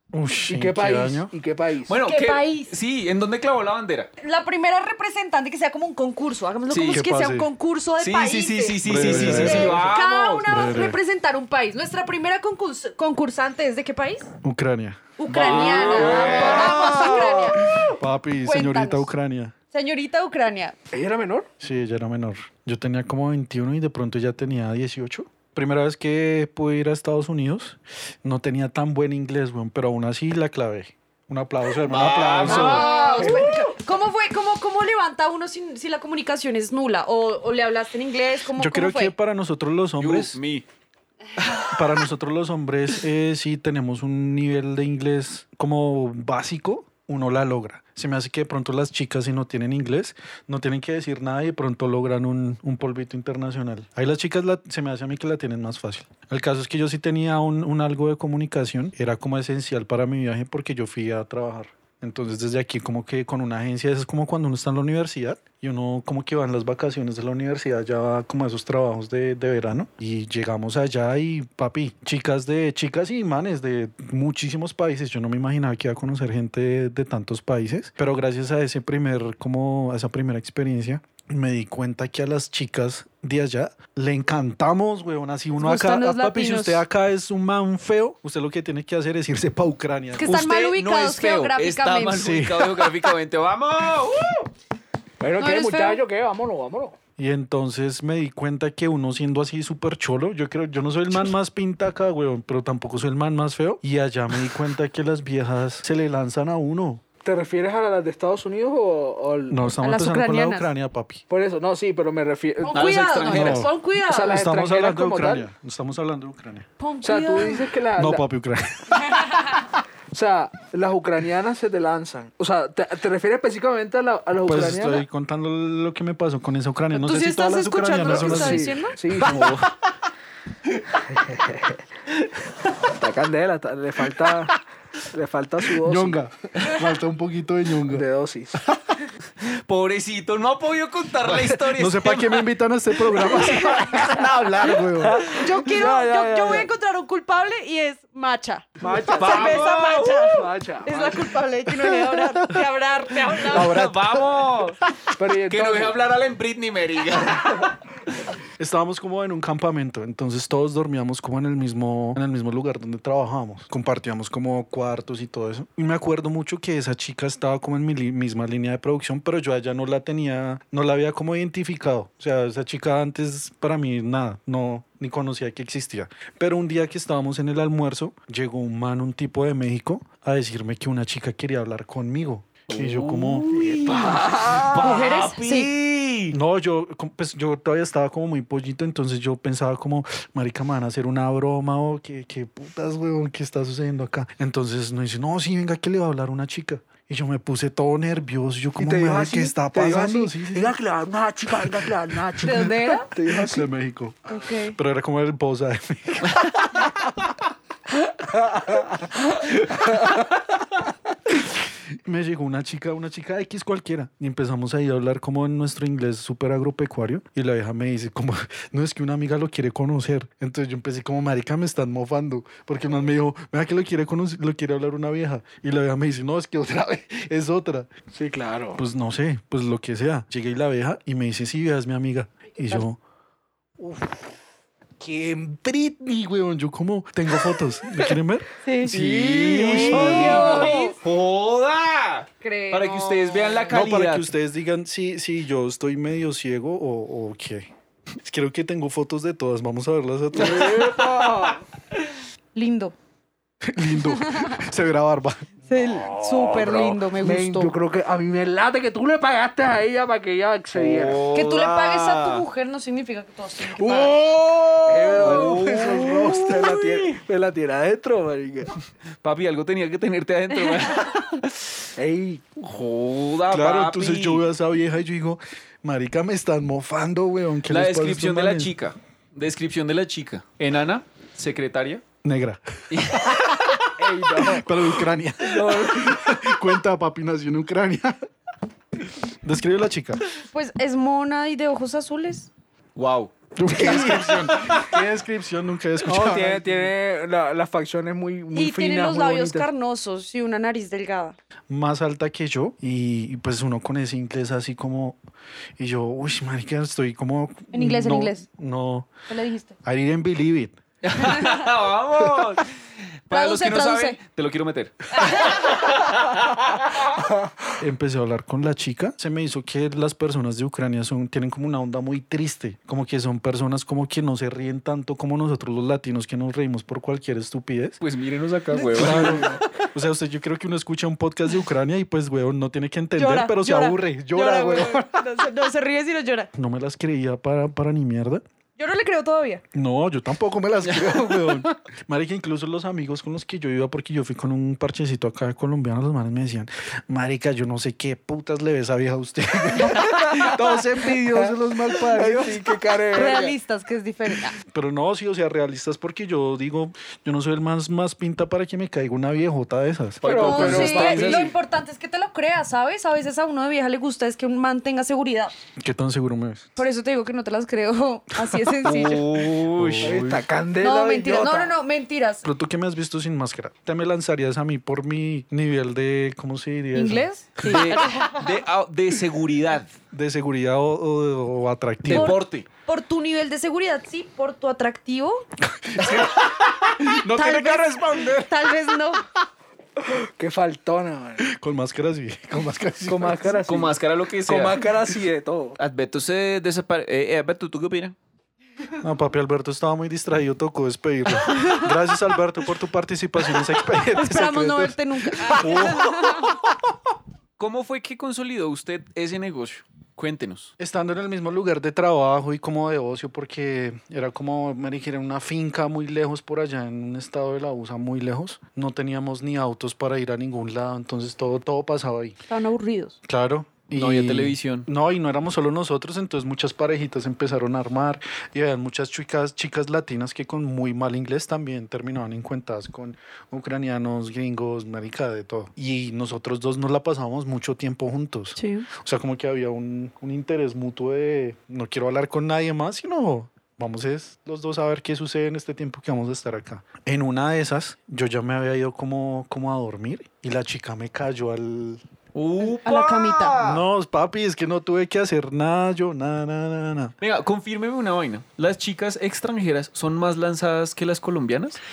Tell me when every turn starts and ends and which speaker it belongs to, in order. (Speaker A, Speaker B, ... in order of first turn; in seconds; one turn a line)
Speaker A: 0.1-1.3
Speaker B: 0.5-2.0
Speaker C: 1.9-4.1
Speaker D: 2.0-2.7
Speaker D: 4.2-14.3
Speaker C: 6.7-7.0
Speaker A: 6.9-7.5
Speaker C: 8.0-10.7
Speaker A: 8.8-9.8
Speaker A: 10.5-11.0
Speaker A: 14.4-16.5
Speaker D: 15.2-17.7
Speaker C: 15.3-17.3
Speaker B: 15.5-17.6
Speaker A: 17.9-19.5
Speaker D: 18.4-19.1
Speaker D: 19.7-20.8
Speaker B: 20.9-21.5
Speaker A: 21.6-33.0
Speaker C: 31.8-33.6
Speaker D: 32.4-39.1
Speaker B: 33.2-33.5
Speaker A: 38.5-40.4
Speaker C: 40.0-40.6
Speaker C: 41.4-41.7
Speaker A: 41.7-90.4
Speaker D: 85.6-86.8
Speaker D: 90.1-92.3
Speaker C: 90.2-94.4
Speaker A: 92.1-92.8
Speaker B: 95.2-97.0
Speaker D: 95.4-96.0
Speaker A: 97.2-107.0
Speaker B: 107.2-109.7
Speaker A: 109.5-111.2
Speaker D: 109.8-110.7
Speaker B: 111.3-112.9
Speaker D: 112.6-114.4
Speaker C: 112.7-113.7
Speaker A: 113.2-116.7
Speaker B: 114.0-115.5
Speaker D: 116.8-117.8
Speaker B: 117.0-118.2
Speaker A: 118.0-119.2
Speaker D: 119.1-119.5
Speaker B: 120.1-125.0
Speaker A: 124.4-128.7
Speaker D: 126.9-129.5
Speaker B: 128.0-129.6
Speaker C: 129.2-129.6
Speaker A: 129.2-129.6
Speaker B: 130.9-131.8
Speaker B: 132.8-136.2
Speaker A: 135.8-138.1
Speaker B: 137.9-138.6
Speaker A: 138.6-138.9
Speaker C: 139.4-142.5
Speaker A: 141.3-145.3
Speaker D: 143.3-144.2
Speaker B: 145.0-146.7
Speaker D: 145.3-153.8
Speaker B: 148.8-149.7
Speaker C: 149.1-150.4
Speaker B: 150.3-151.3
Speaker A: 151.7-152.6
Speaker A: 153.3-154.4
Speaker C: 153.4-154.8
Speaker B: 155.1-156.0
Speaker C: 155.5-157.8
Speaker A: 158.6-183.7
Speaker C: 182.7-186.4
Speaker B: 183.6-185.0
Speaker D: 184.7-185.7
Speaker A: 186.3-200.7
Speaker B: 198.8-203.7
Speaker A: 201.6-202.7
Speaker D: 202.4-203.1
Speaker A: 203.2-206.9
Speaker D: 204.3-204.8
Speaker B: 208.5-208.8
Speaker A: 211.4-227.9
Speaker B: 228.1-228.8
Speaker A: 228.8-233.0
Speaker A: 233.8-234.3
Speaker A: 235.0-240.7
Speaker D: 238.6-238.9
Speaker C: 238.8-244.3
Speaker B: 239.4-240.7
Speaker D: 239.9-241.0
Speaker D: 242.4-243.7
Speaker A: 243.7-247.7
Speaker A: 248.2-251.1
Speaker B: 250.3-251.6
Speaker D: 252.5-252.9
Speaker A: 253.6-255.5
Speaker D: 253.9-254.6
Speaker D: 255.7-257.7
Speaker B: 255.8-261.2
Speaker C: 260.7-262.4
Speaker D: 261.3-264.2
Speaker A: 263.9-266.7
Speaker B: 263.9-268.8
Speaker C: 265.1-266.8
Speaker C: 269.2-271.7
Speaker D: 270.5-271.0
Speaker B: 272.0-272.5
Speaker C: 272.6-274.4
Speaker A: 273.5-278.7
Speaker C: 277.7-282.0
Speaker A: 282.2-288.2
Speaker C: 282.9-283.8
Speaker B: 284.0-284.7
Speaker B: 285.4-286.3
Speaker A: 289.2-290.2
Speaker D: 290.5-292.5
Speaker C: 292.9-294.9
Speaker A: 293.6-296.9
Speaker B: 296.0-299.7
Speaker D: 298.5-301.4
Speaker A: 301.7-305.2
Speaker A: 305.8-309.1
Speaker D: 307.7-308.4
Speaker D: 309.3-309.8
Speaker A: 309.8-310.8
Speaker C: 311.0-312.7
Speaker D: 311.2-311.6
Speaker C: 313.3-317.1
Speaker D: 313.3-314.2
Speaker D: 315.1-315.8
Speaker A: 317.8-328.0
Speaker C: 328.0-329.6
Speaker D: 328.7-329.6
Speaker A: 328.9-335.3
Speaker D: 333.2-336.5
Speaker A: 336.5-338.4
Speaker D: 338.8-339.6
Speaker A: 339.7-352.6
Speaker C: 341.1-341.6
Speaker B: 352.1-353.6
Speaker D: 353.1-354.6
Speaker A: 354.7-360.9
Speaker C: 360.2-361.6
Speaker B: 360.2-361.5
Speaker D: 360.3-365.5
Speaker A: 365.8-366.7
Speaker D: 366.8-369.4
Speaker C: 368.8-370.2
Speaker A: 369.6-370.5
Speaker B: 370.0-371.7
Speaker D: 370.8-372.4
Speaker A: 372.4-378.0
Speaker D: 376.9-378.4
Speaker C: 377.6-379.9
Speaker A: 380.1-382.4
Speaker C: 382.1-382.6
Speaker D: 382.1-385.4
Speaker A: 385.7-388.5
Speaker D: 387.1-389.2
Speaker B: 390.0-391.5
Speaker A: 391.4-393.6
Speaker B: 393.1-395.8
Speaker C: 393.6-394.9
Speaker C: 395.8-398.1
Speaker A: 399.0-406.5
Speaker D: 401.5-401.9
Speaker D: 404.1-406.6
Speaker C: 405.6-406.1
Speaker C: 407.6-410.7
Speaker A: 410.8-422.4
Speaker D: 422.5-423.2
Speaker A: 423.2-452.0
Speaker C: 423.9-424.9
Speaker D: 438.6-438.9
Speaker C: 452.3-453.8
Speaker D: 452.6-453.6
Speaker A: 453.6-457.1
Speaker C: 457.2-461.8